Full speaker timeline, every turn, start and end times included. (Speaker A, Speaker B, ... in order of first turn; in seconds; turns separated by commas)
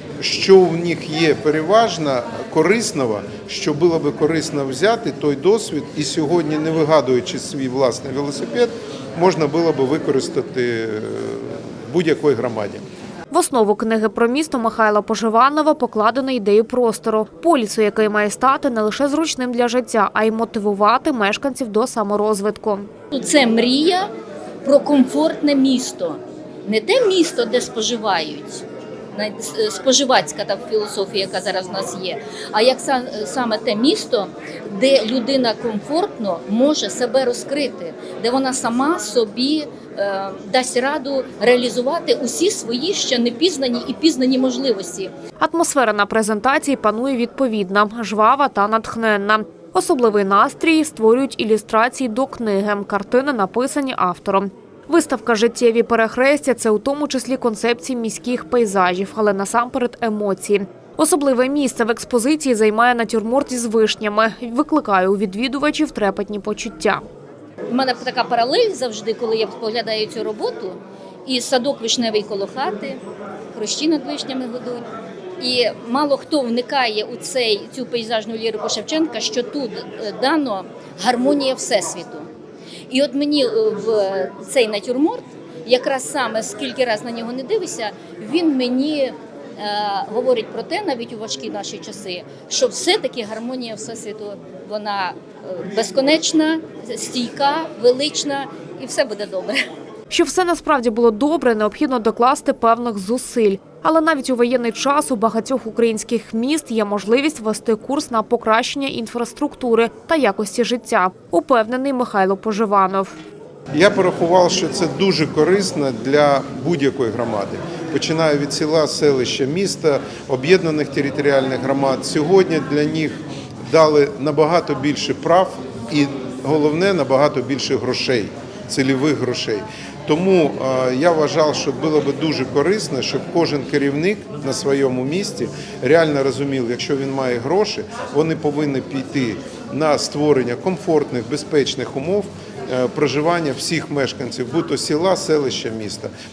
Speaker A: 0.2-12.8, Speaker B: 13.3-22.9, Speaker C: 23.1-24.1, Speaker C: 24.6-45.1, Speaker B: 45.4-67.0, Speaker C: 67.7-73.0, Speaker C: 73.5-74.8, Speaker C: 75.4-82.3, Speaker C: 82.9-99.6, Speaker B: 100.1-113.2, Speaker A: 113.7-146.1